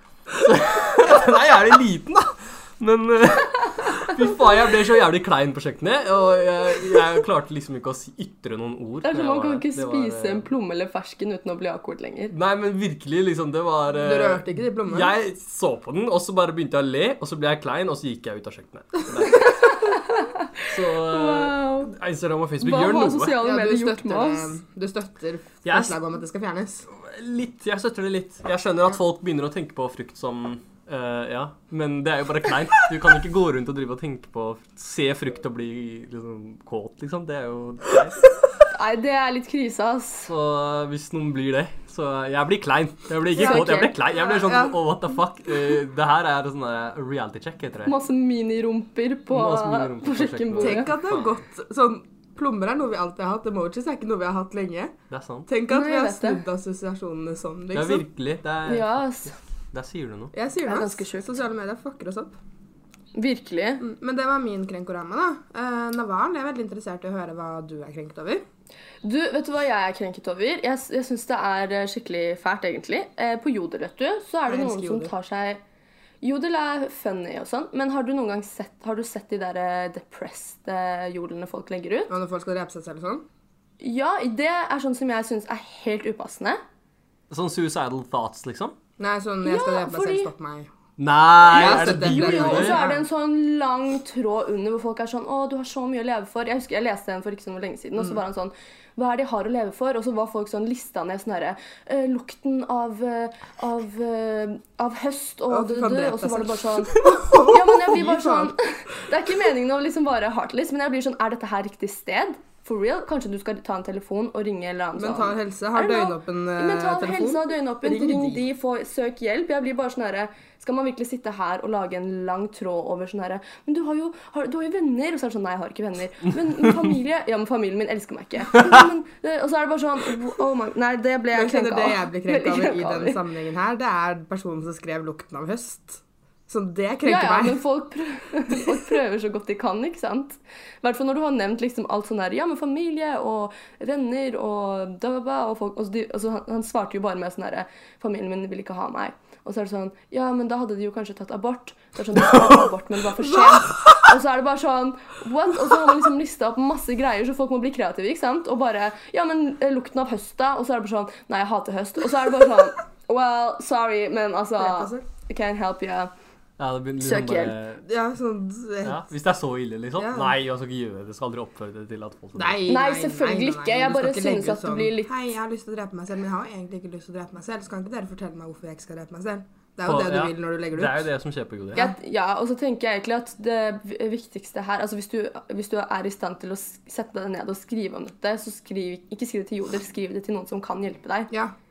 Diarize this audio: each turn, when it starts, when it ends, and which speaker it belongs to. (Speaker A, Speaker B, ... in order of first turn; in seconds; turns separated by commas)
Speaker A: 0.3-10.5, Speaker B: 9.0-12.3, Speaker A: 12.3-20.0, Speaker C: 13.9-15.1, Speaker B: 19.3-21.9, Speaker A: 20.6-23.4, Speaker B: 22.6-24.6, Speaker C: 23.4-26.9, Speaker A: 25.6-26.0, Speaker A: 26.9-38.3, Speaker B: 38.7-40.3, Speaker A: 40.2-47.9, Speaker B: 43.3-44.0, Speaker C: 43.4-44.8, Speaker B: 47.9-50.9, Speaker A: 49.3-51.3, Speaker C: 50.6-54.9, Speaker A: 55.1-55.5, Speaker C: 55.5-58.1, Speaker B: 55.7-56.4, Speaker A: 57.7-60.3, Speaker B: 58.6-59.3, Speaker C: 60.3-62.3, Speaker B: 60.6-61.2, Speaker B: 63.1-63.8, Speaker C: 63.8-68.4, Speaker B: 69.0-75.6, Speaker C: 74.5-75.1, Speaker B: 76.2-82.1, Speaker C: 82.1-83.2, Speaker B: 83.8-86.6, Speaker A: 87.3-88.7, Speaker C: 89.0-90.7, Speaker B: 89.4-90.3, Speaker A: 91.0-92.8, Speaker C: 91.4-93.0, Speaker B: 91.5-133.2, Speaker C: 105.5-108.5, Speaker C: 115.0-118.4, Speaker A: 126.6-126.9, Speaker A: 128.5-128.9, Speaker C: 131.3-137.6, Speaker B: 137.1-166.1, Speaker C: 164.6-165.0, Speaker A: 166.6-167.8, Speaker B: 167.0-167.5, Speaker C: 167.8-169.0, Speaker A: 168.8-172.8, Speaker C: 170.0-170.3, Speaker C: 172.3-181.0, Speaker B: 172.7-175.1, Speaker A: 179.8-181.9, Speaker B: 181.7-191.3